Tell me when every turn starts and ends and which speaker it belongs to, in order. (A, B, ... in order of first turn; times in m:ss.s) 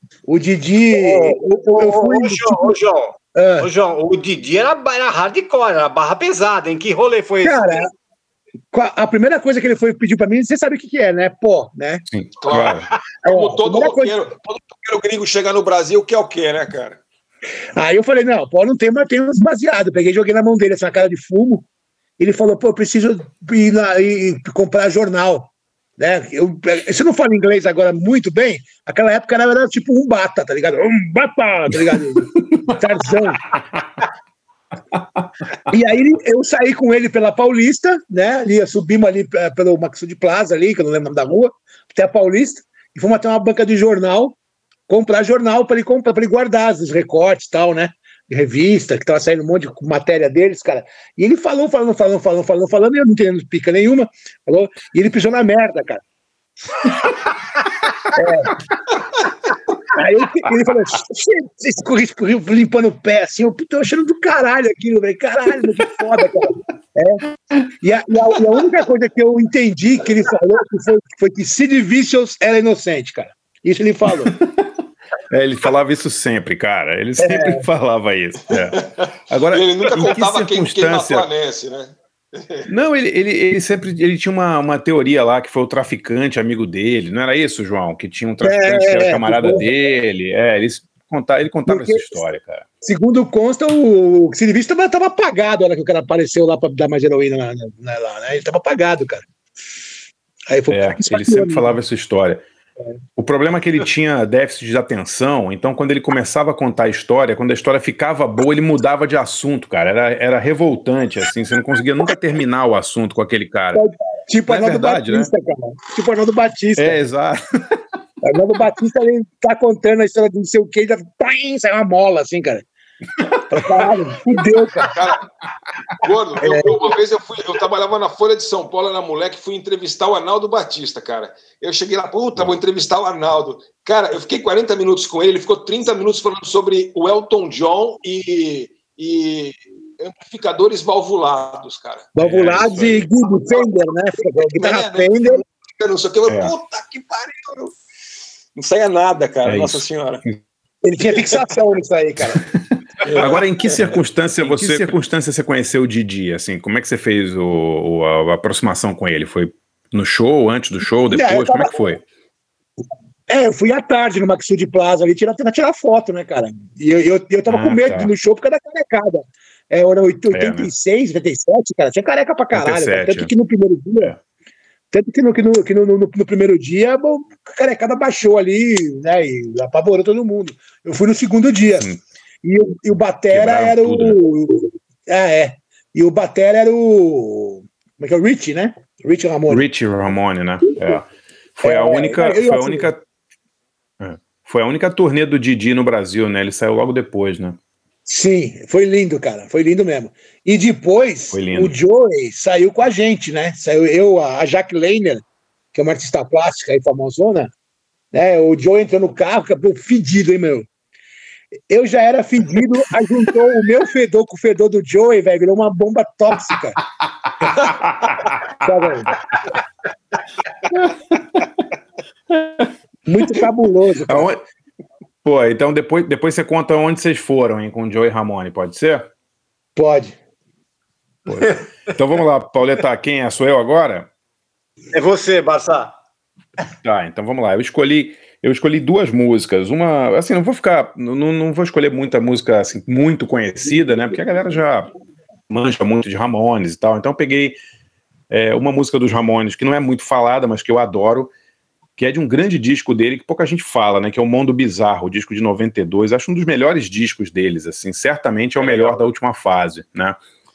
0:00.2-0:02.8 A
0:00.9-0:07.8 B
0:03.4-0:03.7 A
0:07.4-0:07.9 A
0:08.7-0:12.0 A
0:12.1-0:12.9 C
0:12.4-0:17.0 D
0:13.2-0:14.1 A
0:17.8-0:21.6 A
0:22.2-0:33.6 A
0:34.9-0:35.2 C
0:35.7-0:44.4 A
0:44.9-0:56.0 A
0:58.1-0:58.6 A
0:59.9-1:07.2 A
1:07.8-1:14.4 A
1:15.3-1:21.3 C
1:17.2-1:17.6 A
1:18.8-1:22.7 D
1:22.7-1:32.6 C
1:28.4-1:29.6 A
1:31.7-1:32.1 A
1:32.8-1:39.2 A
1:40.5-1:41.8 A
1:40.7-1:42.4 C
1:43.2-1:53.8 C
1:53.7-1:57.0 A
1:54.5-1:55.3 C
1:56.8-1:57.8 C
1:58.2-2:02.6 A
2:03.2-2:03.8 C
2:03.5-2:04.9 A
2:04.9-2:05.2 D
2:06.0-2:22.1 D
2:06.4-2:07.0 A
2:22.2-2:25.4 A
2:22.2-2:23.0 C
2:23.5-2:27.7 D
2:26.3-2:26.5 C
2:28.6-2:30.2 D
2:29.4-2:30.4 C
2:30.8-2:32.4 A
2:33.0-2:33.8 D
2:33.1-2:33.4 A
2:33.2-2:42.0 C
2:34.5-2:34.8 D
2:41.1-2:41.7 A
2:43.3-2:54.1 A
2:47.5-2:48.1 C
2:50.3-2:50.7 C
2:52.5-2:53.3 C
2:54.9-3:01.9 A
3:02.4-3:09.6 A
3:03.3-3:04.2 C
3:09.5-3:13.0 C
3:11.6-3:12.8 A
3:14.0-3:17.6 C
3:18.0-3:27.5 A
3:21.3-3:21.7 C
3:28.1-3:30.7 A
3:31.7-3:36.8 A
3:37.4-3:37.8 A
3:37.6-3:38.4 C
3:38.5-3:39.1 A
3:40.7-3:41.4 C
3:42.3-3:42.7 C
3:43.0-3:44.3 A
3:44.1-3:44.4 C
3:45.2-3:49.1 C
3:49.8-3:50.2 A
3:51.3-3:54.1 C
3:54.9-3:55.9 B
3:56.8-4:04.9 C
4:05.5-4:07.6 C
4:08.3-4:11.3 C
4:12.0-4:20.2 C
4:18.6-4:19.1 D